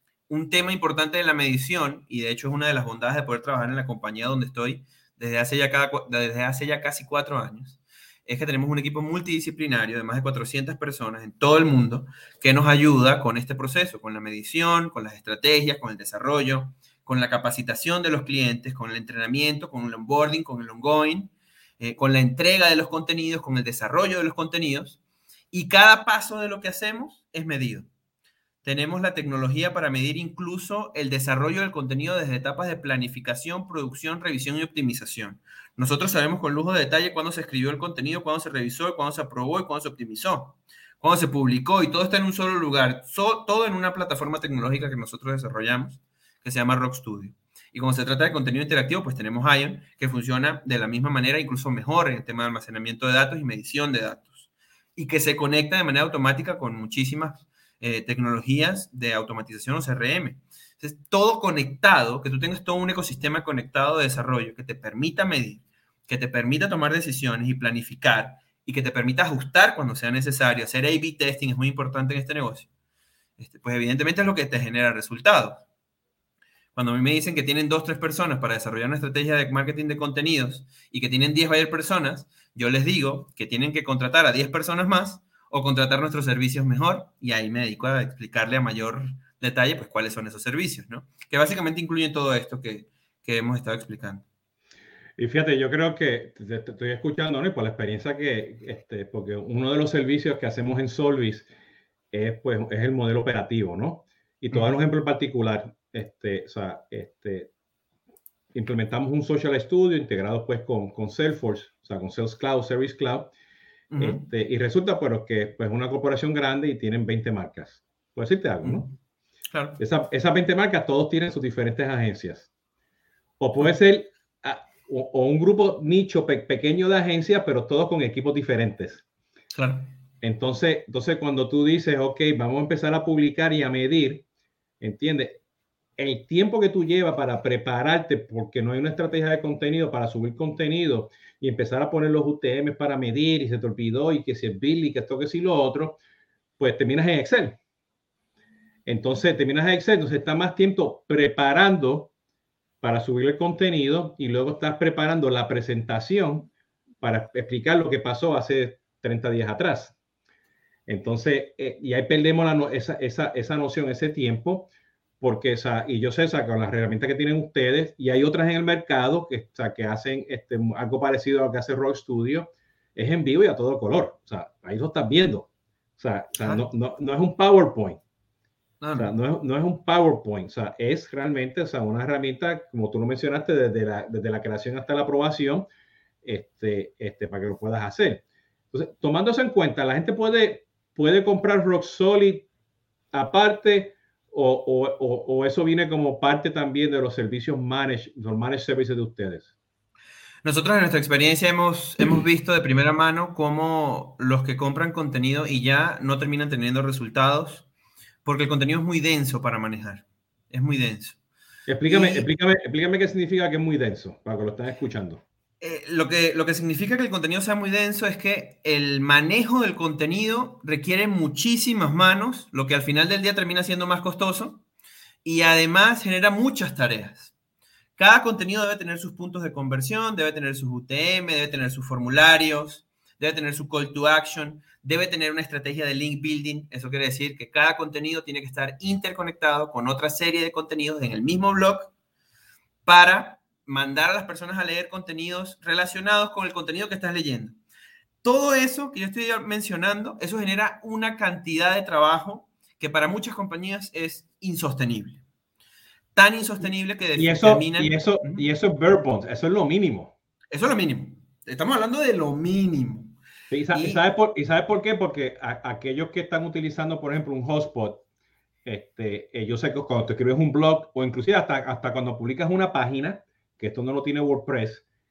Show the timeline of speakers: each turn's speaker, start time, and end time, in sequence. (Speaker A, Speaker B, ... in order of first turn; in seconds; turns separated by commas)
Speaker A: 0.3-25.0, Speaker A: 25.5-27.9, Speaker A: 28.6-72.7, Speaker A: 73.4-75.6, Speaker A: 76.7-94.2, Speaker B: 95.2-101.5, Speaker B: 102.1-107.5, Speaker B: 108.5-113.3, Speaker A: 113.9-114.2, Speaker B: 114.0-118.9, Speaker A: 118.6-118.9, Speaker A: 119.5-119.8, Speaker B: 119.8-122.5, Speaker B: 123.4-129.0, Speaker A: 129.5-129.9, Speaker B: 130.2-134.2, Speaker B: 134.8-135.4, Speaker B: 136.0-146.0, Speaker B: 146.6-147.6, Speaker B: 148.8-152.1, Speaker B: 152.8-159.9, Speaker B: 160.9-164.7, Speaker B: 165.2-178.0, Speaker A: 178.8-179.1, Speaker B: 178.9-185.7, Speaker B: 186.2-192.5, Speaker B: 193.1-199.5, Speaker A: 200.4-207.7, Speaker A: 208.2-211.2, Speaker B: 211.7-215.2, Speaker A: 211.8-212.2, Speaker A: 215.6-224.6, Speaker A: 225.2-227.3, Speaker A: 228.0-241.9, Speaker A: 242.8-247.6, Speaker A: 248.2-255.2, Speaker A: 256.1-258.4, Speaker B: 257.1-260.1, Speaker A: 260.5-263.2, Speaker B: 263.5-268.0, Speaker A: 263.7-264.0, Speaker B: 268.6-274.8